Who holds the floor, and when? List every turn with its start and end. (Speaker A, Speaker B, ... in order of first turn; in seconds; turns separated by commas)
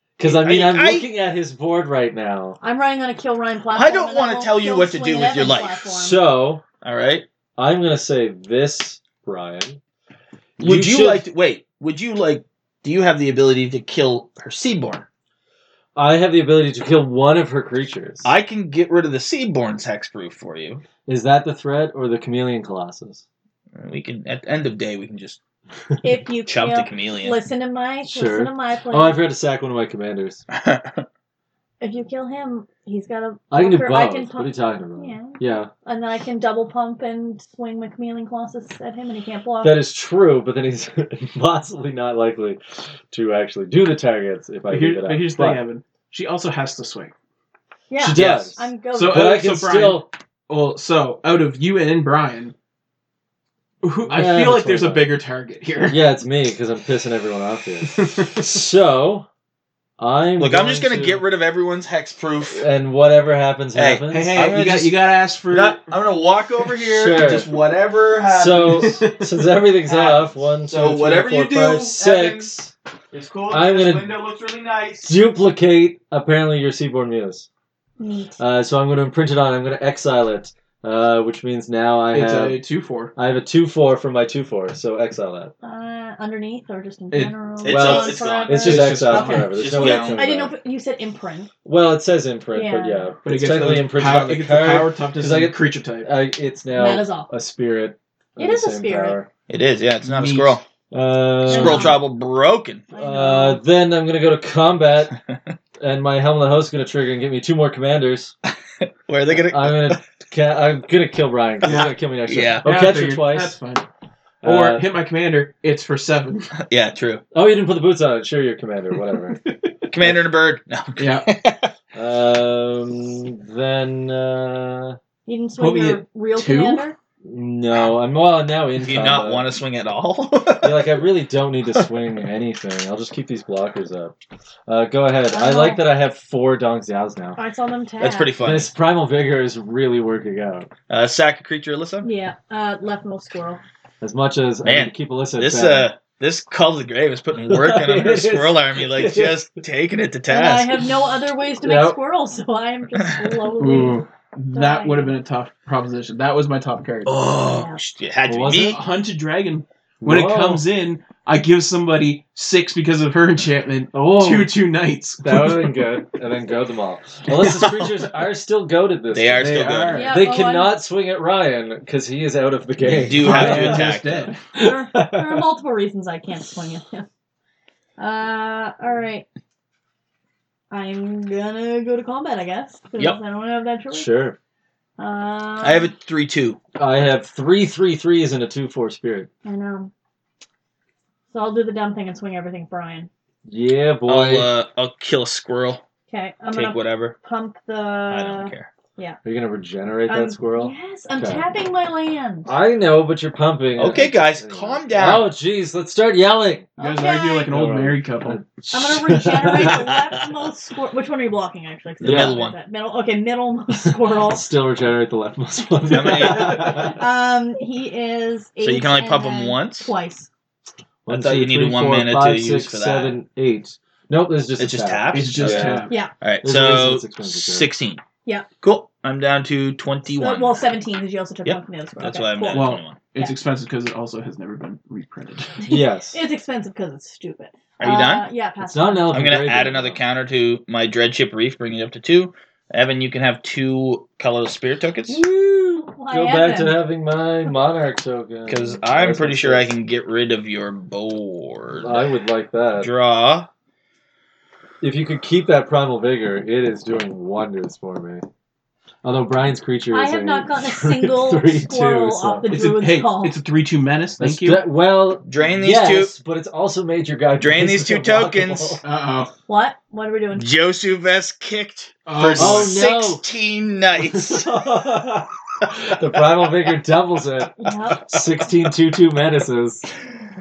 Speaker A: 0.2-2.6, Speaker B: 0.2-1.1, Speaker C: 2.6-6.2, Speaker B: 3.7-5.9, Speaker A: 5.9-6.6, Speaker B: 6.8-7.3, Speaker A: 7.6-9.8, Speaker A: 10.6-11.2, Speaker B: 10.6-15.1, Speaker A: 15.9-18.3, Speaker B: 18.2-20.8, Speaker A: 21.1-23.2, Speaker B: 23.8-25.4, Speaker C: 26.0-29.2, Speaker B: 26.5-27.4, Speaker A: 28.0-30.4, Speaker B: 30.5-31.0, Speaker C: 31.8-39.8, Speaker A: 33.5-35.7, Speaker A: 39.6-45.6, Speaker D: 44.7-47.1, Speaker C: 47.9-49.4, Speaker A: 48.0-50.1, Speaker B: 48.1-48.5, Speaker D: 48.9-52.5, Speaker D: 53.8-56.0, Speaker A: 54.0-55.1, Speaker A: 55.8-59.3, Speaker D: 57.8-58.5, Speaker A: 60.0-61.2, Speaker B: 60.4-62.6, Speaker A: 62.4-64.4, Speaker B: 63.7-69.0, Speaker D: 64.1-65.9, Speaker A: 66.8-67.5, Speaker A: 68.2-72.7, Speaker D: 68.7-69.3, Speaker B: 69.9-72.5, Speaker B: 73.1-75.2, Speaker A: 73.5-74.1, Speaker A: 75.0-77.5, Speaker C: 78.0-78.4, Speaker A: 78.4-82.6, Speaker D: 82.1-83.1, Speaker A: 83.2-85.5, Speaker C: 85.6-91.5, Speaker B: 87.6-90.2, Speaker A: 87.7-90.5, Speaker D: 88.5-89.6, Speaker A: 91.6-99.3, Speaker C: 92.5-93.1, Speaker D: 93.2-96.1, Speaker C: 96.7-97.3, Speaker C: 98.4-99.2, Speaker B: 99.5-100.6, Speaker D: 100.0-100.6, Speaker A: 100.9-102.0, Speaker B: 101.5-102.9, Speaker C: 101.5-102.0, Speaker C: 102.9-103.6, Speaker A: 103.0-105.2, Speaker A: 105.8-108.3, Speaker B: 108.8-110.0, Speaker A: 109.3-113.6, Speaker B: 111.6-112.6, Speaker D: 111.7-111.9, Speaker D: 112.6-113.8, Speaker A: 114.4-114.8, Speaker D: 114.4-116.5, Speaker B: 116.5-117.2, Speaker A: 117.3-119.4, Speaker B: 119.9-121.7, Speaker D: 121.0-121.3, Speaker A: 121.9-125.0, Speaker C: 125.3-127.0, Speaker D: 125.6-126.8, Speaker A: 127.2-129.5, Speaker B: 128.8-131.0, Speaker A: 130.6-134.1, Speaker A: 134.7-137.4, Speaker C: 135.3-135.8, Speaker C: 137.4-138.3, Speaker B: 138.0-138.7, Speaker A: 138.4-140.7, Speaker B: 140.9-142.1, Speaker C: 142.0-143.6, Speaker A: 144.0-145.9, Speaker B: 144.6-150.8, Speaker A: 147.4-149.4, Speaker C: 150.3-155.1, Speaker A: 151.6-152.0, Speaker D: 153.6-157.3, Speaker B: 157.1-158.8, Speaker C: 157.4-157.8, Speaker A: 158.2-158.8, Speaker D: 158.5-165.9, Speaker A: 160.0-160.6, Speaker A: 163.9-164.5, Speaker A: 165.2-169.5, Speaker B: 167.3-168.1, Speaker B: 169.1-170.1, Speaker D: 169.4-170.2, Speaker C: 169.9-170.8, Speaker A: 170.1-174.0, Speaker B: 172.8-174.3, Speaker D: 173.1-174.4, Speaker A: 174.5-175.5, Speaker C: 174.5-177.1, Speaker C: 178.0-179.3, Speaker C: 180.7-184.1, Speaker A: 183.9-184.4, Speaker C: 185.0-185.9, Speaker B: 185.6-186.6, Speaker A: 186.8-189.3, Speaker C: 189.4-189.9, Speaker C: 191.3-193.1, Speaker A: 193.4-194.5, Speaker B: 194.1-195.8, Speaker C: 196.1-199.2, Speaker B: 196.5-197.2, Speaker B: 198.1-198.7, Speaker A: 199.2-201.4, Speaker C: 200.1-202.5, Speaker A: 202.4-206.7, Speaker B: 203.8-205.3, Speaker C: 206.8-207.5, Speaker D: 206.8-208.4, Speaker A: 207.5-209.8, Speaker C: 208.7-214.5, Speaker B: 209.6-210.3, Speaker B: 212.0-212.6, Speaker A: 212.0-212.4, Speaker A: 213.8-217.0, Speaker B: 215.8-216.9, Speaker C: 216.6-220.3, Speaker B: 218.6-219.9, Speaker A: 221.1-225.9, Speaker B: 221.1-223.2, Speaker B: 224.6-228.0, Speaker D: 225.1-226.0, Speaker A: 226.4-227.7, Speaker B: 228.6-230.7, Speaker C: 230.2-233.3, Speaker B: 231.4-233.0, Speaker D: 232.5-235.6, Speaker C: 235.6-239.3, Speaker A: 235.7-236.2, Speaker B: 237.8-238.2, Speaker A: 238.6-240.0, Speaker B: 239.1-245.2, Speaker A: 245.1-249.7, Speaker C: 245.9-246.8, Speaker B: 248.5-252.1, Speaker A: 251.8-252.9, Speaker B: 252.8-253.5, Speaker A: 254.8-258.2, Speaker A: 259.0-262.5, Speaker C: 259.9-263.4, Speaker D: 262.5-264.6, Speaker A: 264.2-268.8, Speaker B: 265.2-266.1, Speaker B: 267.4-268.8, Speaker D: 268.8-269.3, Speaker C: 269.5-270.5, Speaker B: 270.3-274.5, Speaker D: 272.1-272.8, Speaker A: 272.3-273.2, Speaker A: 273.9-279.9, Speaker C: 277.6-278.1